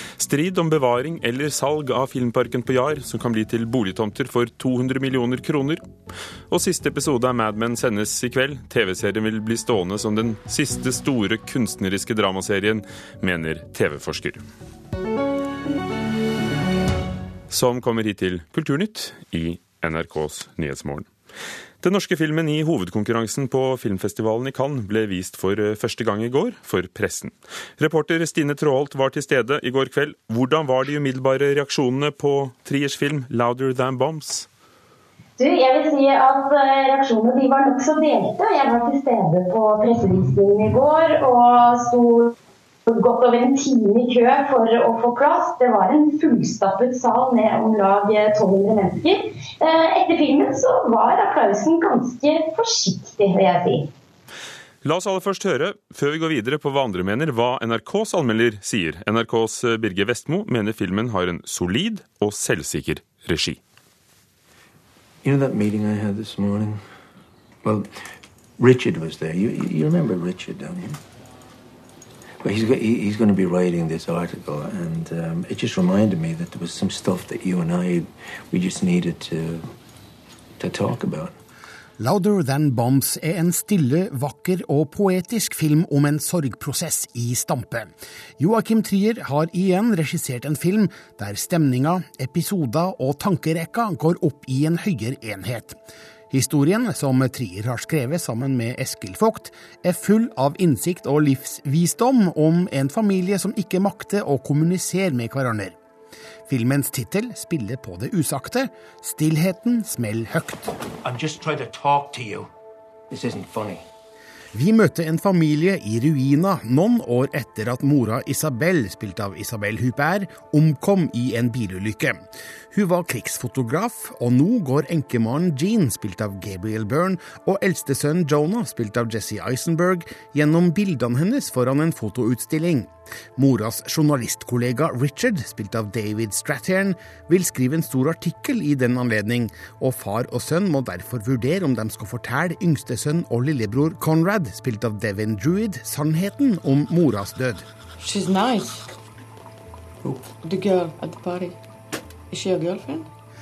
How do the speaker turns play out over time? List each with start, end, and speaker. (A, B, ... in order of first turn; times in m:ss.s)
0:00.2-0:05.8 A
0:06.5-0:14.4 A
0:17.5-0:21.1 A
0:21.8-0:34.5 A
0:35.4-0:42.3 B
0:42.9-0:53.9 B
0:54.8-1:03.6 A
1:05.2-1:06.8 C
1:07.6-1:08.0 C
1:08.6-1:11.0 C
1:12.4-1:19.7 C
1:20.6-1:21.4 C
1:22.0-1:35.8 D
1:36.3-1:45.8 D
1:46.5-1:50.7 D
1:51.0-1:52.5 C
1:53.1-1:53.8 C
1:54.5-2:27.7 D
2:28.0-2:28.9 E
2:30.3-2:31.6 E
2:32.3-2:33.1 E